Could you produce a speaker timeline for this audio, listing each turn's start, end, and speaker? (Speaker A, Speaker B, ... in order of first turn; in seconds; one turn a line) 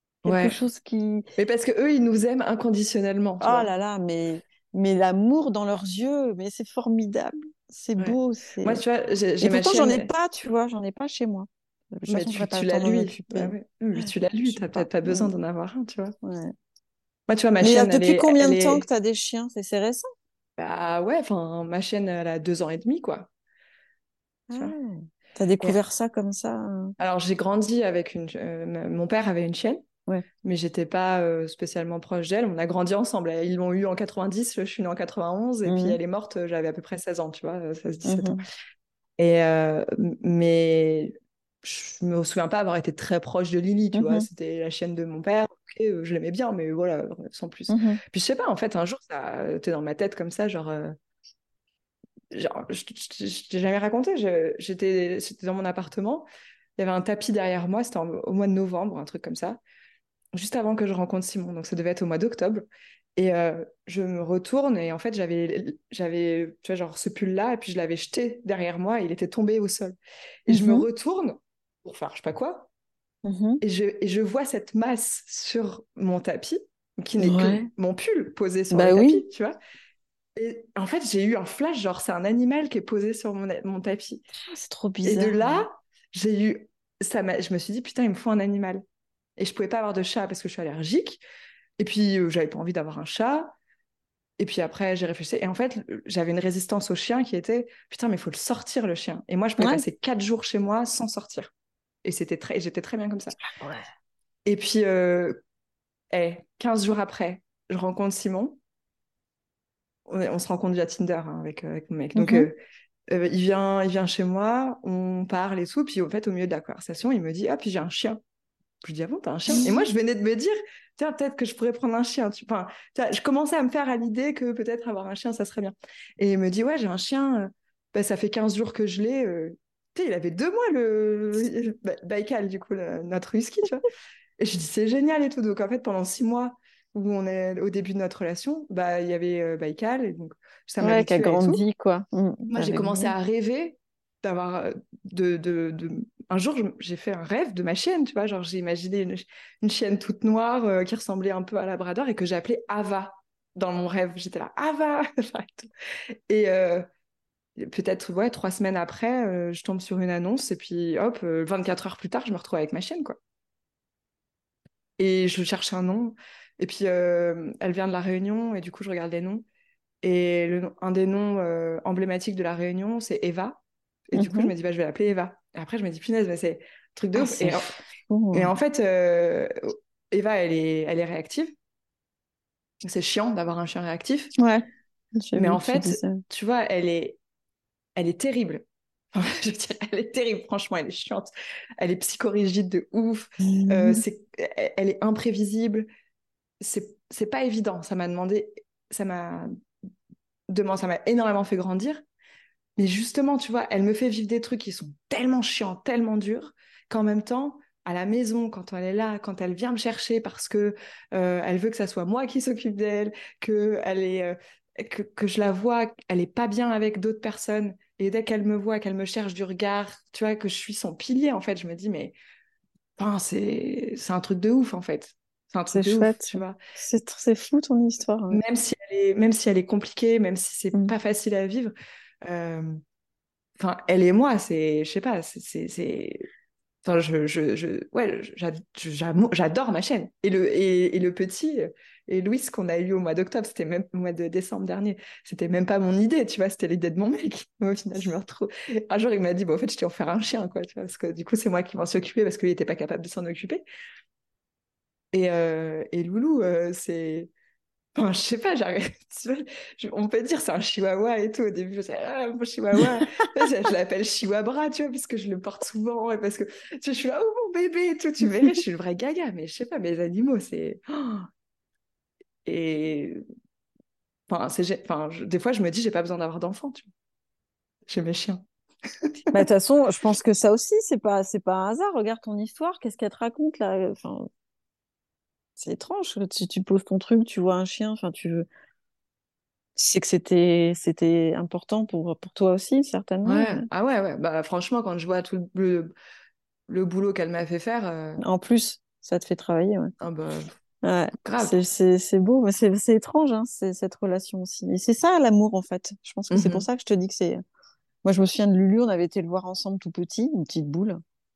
Speaker A: 0.2-0.6
Speaker B: 0.2-1.2
Speaker A: 1.4-3.7
Speaker B: 3.4-8.8
Speaker A: 8.0-10.1
Speaker B: 9.4-15.3
Speaker A: 12.1-16.1
Speaker B: 16.2-16.5
Speaker A: 17.3-18.9
Speaker B: 17.6-20.1
Speaker A: 20.6-23.3
Speaker B: 24.5-26.9
Speaker A: 27.0-29.8
Speaker A: 30.4-38.4
Speaker B: 35.7-36.0
Speaker B: 38.0-38.4
Speaker A: 39.2-51.0
Speaker B: 43.9-44.3
Speaker B: 47.7-48.0
Speaker A: 52.3-56.3
Speaker A: 56.8-59.6
Speaker A: 60.3-70.0
Speaker A: 70.5-72.7
Speaker B: 70.5-70.9
Speaker B: 73.2-73.6
Speaker A: 73.6-79.6
Speaker B: 77.2-77.7
Speaker B: 78.7-79.2
Speaker A: 80.4-84.2
Speaker B: 84.3-85.7
Speaker A: 85.0-88.8
Speaker A: 89.4-91.2
Speaker A: 91.8-93.5
Speaker A: 94.4-101.5
Speaker B: 99.6-99.8
Speaker A: 102.0-103.4
Speaker B: 103.4-103.8
Speaker A: 104.5-105.4
Speaker A: 106.1-108.6
Speaker A: 110.1-112.6
Speaker B: 112.2-112.5
Speaker A: 113.1-118.2
Speaker A: 118.8-133.9
Speaker B: 119.5-119.8
Speaker A: 134.4-141.6
Speaker B: 140.8-143.1
Speaker A: 142.5-155.7
Speaker A: 156.3-156.9
Speaker A: 157.6-163.2
Speaker A: 165.0-169.4
Speaker A: 170.0-177.7
Speaker B: 174.2-174.5
Speaker B: 177.2-178.5
Speaker A: 178.3-181.5
Speaker A: 182.8-184.3
Speaker B: 184.4-184.7
Speaker B: 185.2-186.2
Speaker A: 185.3-187.2
Speaker A: 188.0-195.9
Speaker B: 193.4-194.0
Speaker A: 196.6-199.5
Speaker A: 200.5-202.0
Speaker A: 202.8-222.2
Speaker A: 223.0-226.6
Speaker B: 225.7-228.4
Speaker A: 228.3-231.7
Speaker A: 232.2-232.8
Speaker A: 233.6-236.3
Speaker A: 236.8-253.6
Speaker A: 255.1-257.3
Speaker A: 257.9-271.3
Speaker A: 272.5-273.2
Speaker A: 274.3-276.9
Speaker A: 277.9-278.4
Speaker B: 279.3-284.3
Speaker B: 285.6-288.5
Speaker B: 289.8-293.7
Speaker A: 293.2-295.9
Speaker A: 296.7-298.2
Speaker B: 298.2-299.9
Speaker A: 300.0-300.5
Speaker B: 300.8-307.4
Speaker A: 301.2-301.6
Speaker A: 306.3-306.7
Speaker B: 308.0-311.0